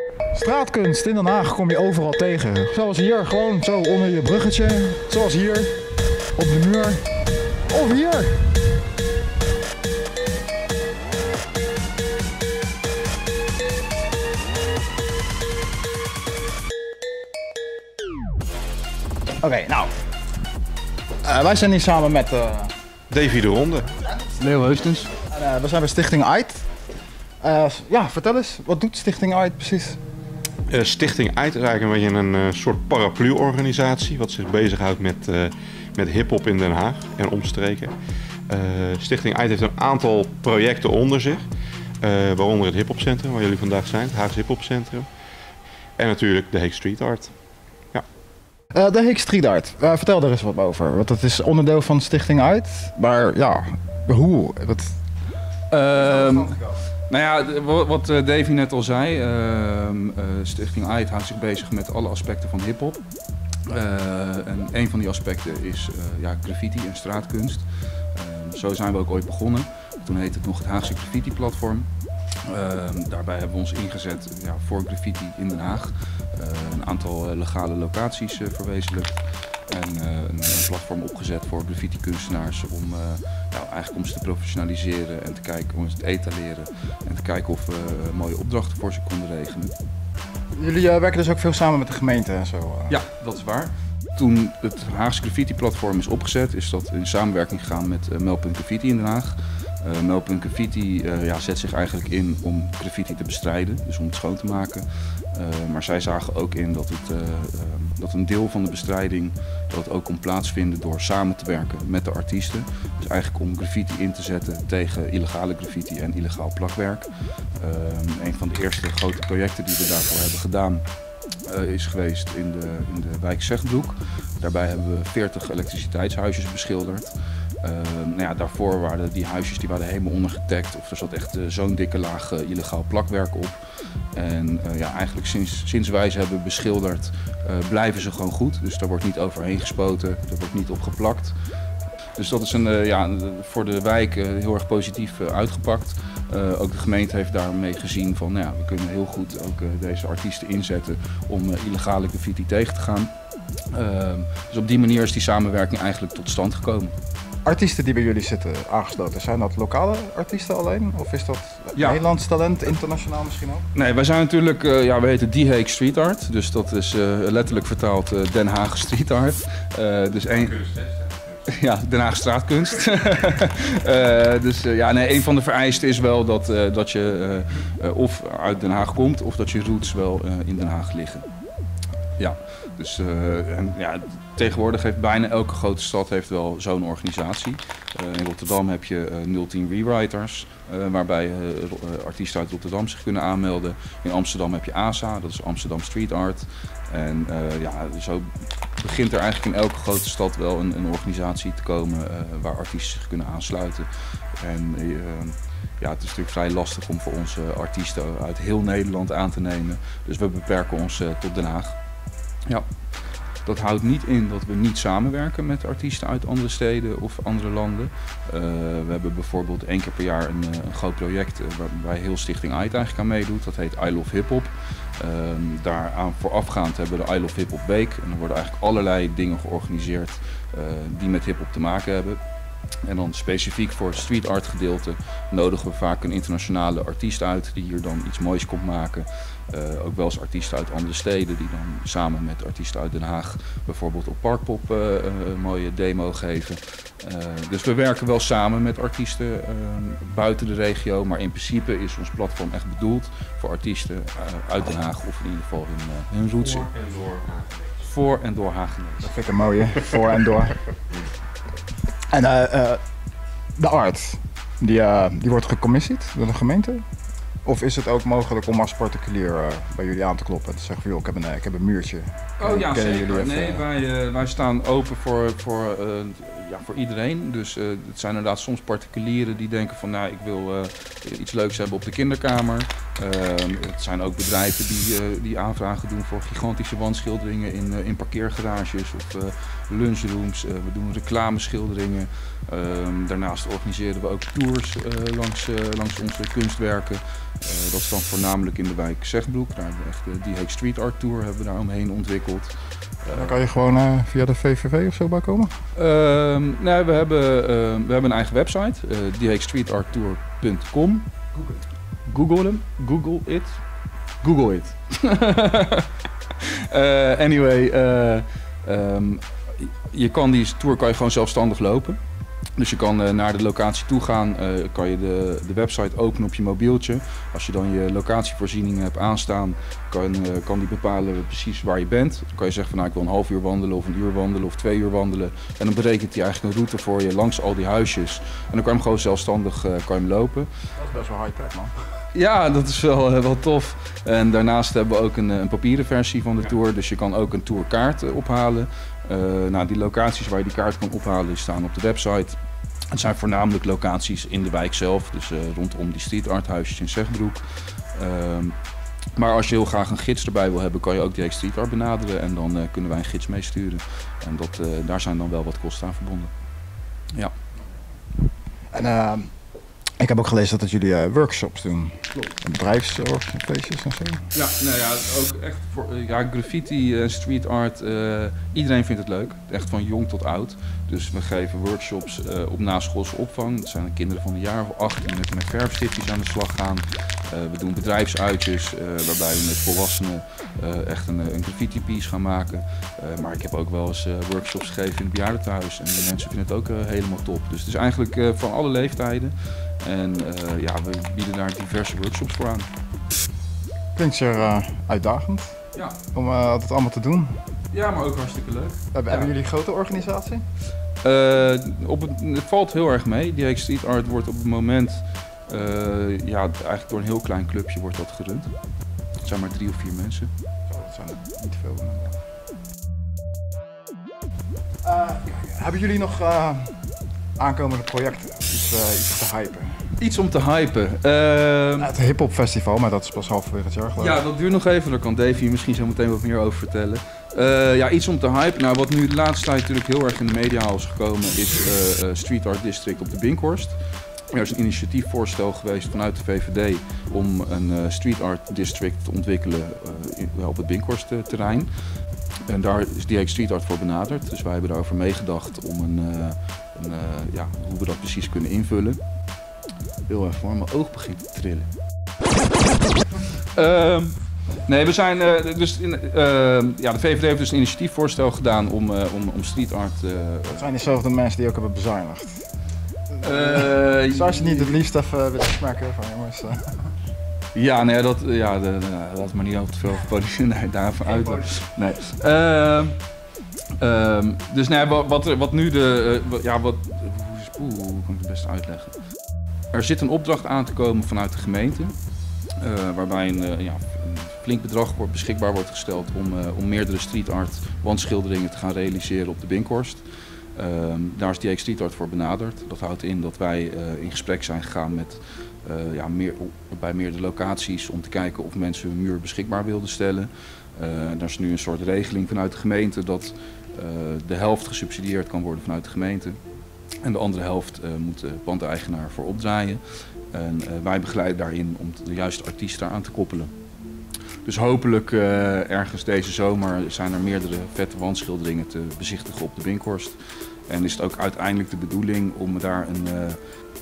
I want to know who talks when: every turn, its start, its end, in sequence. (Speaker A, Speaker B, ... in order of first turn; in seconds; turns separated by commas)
Speaker A: 0.3-5.7, Speaker A: 6.4-7.0, Speaker A: 7.7-8.4, Speaker A: 19.4-19.9, Speaker A: 21.2-22.7, Speaker B: 23.1-23.9, Speaker C: 24.4-25.1, Speaker A: 25.3-26.7, Speaker A: 27.4-30.0, Speaker B: 30.7-37.9, Speaker B: 38.5-41.5, Speaker B: 42.0-45.1, Speaker B: 46.0-47.3, Speaker A: 48.7-55.0, Speaker C: 55.7-56.6, Speaker A: 56.0-56.8, Speaker C: 57.1-63.0, Speaker C: 63.7-71.9, Speaker C: 72.4-89.8, Speaker A: 90.6-93.0, Speaker C: 92.9-120.8, Speaker C: 121.5-133.6, Speaker C: 134.1-141.3, Speaker C: 142.2-153.1, Speaker C: 153.7-156.9, Speaker A: 157.4-163.7, Speaker C: 161.8-162.0, Speaker C: 163.7-170.6, Speaker B: 170.4-171.4, Speaker C: 171.5-181.3, Speaker C: 182.2-203.9, Speaker C: 204.4-211.8, Speaker C: 213.4-232.2, Speaker C: 232.8-256.7, Speaker B: 256.4-257.7, Speaker C: 257.8-259.2, Speaker A: 259.0-260.6, Speaker A: 262.1-262.8, Speaker A: 263.6-266.8, Speaker A: 267.4-273.6, Speaker C: 272.4-303.4, Speaker A: 303.1-305.5, Speaker C: 305.8-311.1, Speaker C: 312.1-313.6, Speaker A: 314.2-314.6, Speaker C: 314.3-322.0, Speaker C: 322.6-340.5, Speaker A: 340.8-341.7, Speaker C: 342.1-352.4, Speaker C: 352.9-358.6, Speaker C: 359.1-366.3, Speaker A: 368.7-369.3, Speaker A: 370.0-374.2, Speaker C: 374.3-402.7, Speaker A: 404.0-405.6, Speaker A: 406.1-407.3, Speaker C: 407.7-409.3, Speaker A: 408.9-410.4, Speaker C: 411.0-418.5, Speaker C: 419.2-420.3, Speaker A: 420.7-422.2, Speaker A: 424.8-426.8, Speaker A: 427.4-429.8, Speaker C: 430.0-431.9, Speaker A: 431.8-434.2, Speaker C: 434.0-443.8, Speaker C: 444.3-451.7, Speaker C: 452.5-459.0, Speaker C: 460.1-461.7, Speaker C: 463.5-470.7, Speaker A: 470.6-472.5, Speaker A: 473.1-476.6, Speaker C: 473.2-474.8, Speaker C: 477.5-483.0, Speaker A: 481.1-481.5, Speaker C: 483.8-488.9, Speaker C: 489.7-491.9, Speaker C: 492.6-500.1, Speaker C: 500.6-516.4, Speaker C: 517.0-523.5, Speaker C: 524.4-533.4